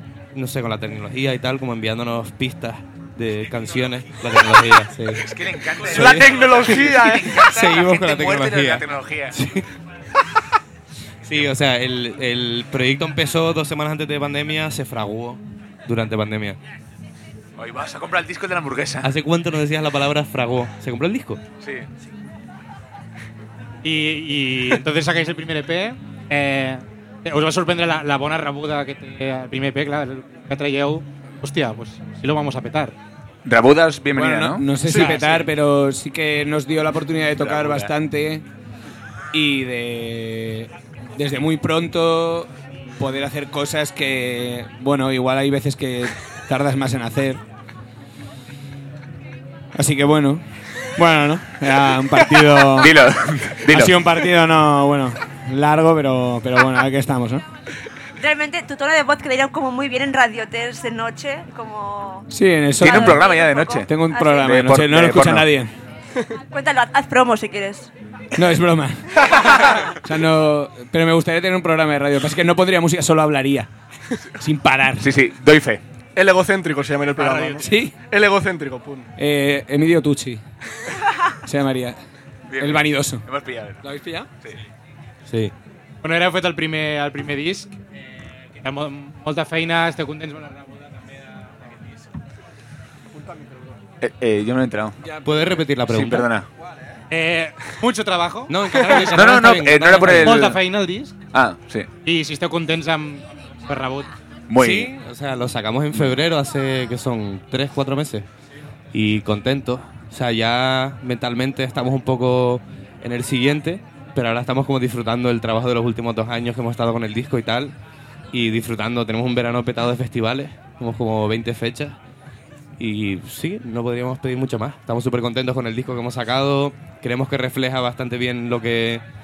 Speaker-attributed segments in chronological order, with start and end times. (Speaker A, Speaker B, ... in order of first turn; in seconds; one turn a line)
Speaker A: 0.3-9.7
Speaker B: 5.1-9.3
Speaker C: 5.9-7.5
Speaker A: 11.2-16.6
Speaker B: 17.6-19.1
Speaker A: 19.0-21.4
Speaker D: 23.8-33.0
Speaker B: 33.5-34.7
Speaker E: 34.1-38.5
Speaker C: 34.9-35.2
Speaker D: 34.9-35.4
Speaker B: 37.4-37.9
Speaker E: 39.3-47.4
Speaker E: 49.8-50.4
Speaker E: 51.0-57.5
Speaker B: 52.8-54.0
Speaker F: 58.2-62.3
Speaker E: 62.3-65.7
Speaker F: 62.8-64.4
Speaker B: 62.8-65.5
Speaker F: 66.5-67.9
Speaker E: 68.4-73.7
Speaker C: 69.4-69.7
Speaker E: 74.4-75.1
Speaker B: 75.0-75.8
Speaker C: 76.2-79.1
Speaker D: 77.2-77.6
Speaker E: 77.6-78.0
Speaker E: 79.2-80.4
Speaker E: 81.5-82.0
Speaker B: 82.5-83.8
Speaker E: 82.6-83.2
Speaker E: 83.8-84.3
Speaker A: 85.3-85.5
Speaker D: 86.0-87.8
Speaker D: 88.6-91.0
Speaker C: 93.2-93.7
Speaker B: 94.0-95.0
Speaker A: 95.2-96.3
Speaker B: 95.9-96.5
Speaker D: 97.1-101.1
Speaker A: 98.5-100.5
Speaker B: 98.9-100.6
Speaker B: 101.3-101.9
Speaker D: 102.0-104.1
Speaker B: 104.5-104.9
Speaker A: 104.6-108.3
Speaker A: 108.9-117.7
Speaker A: 118.3-122.0
Speaker A: 122.8-129.0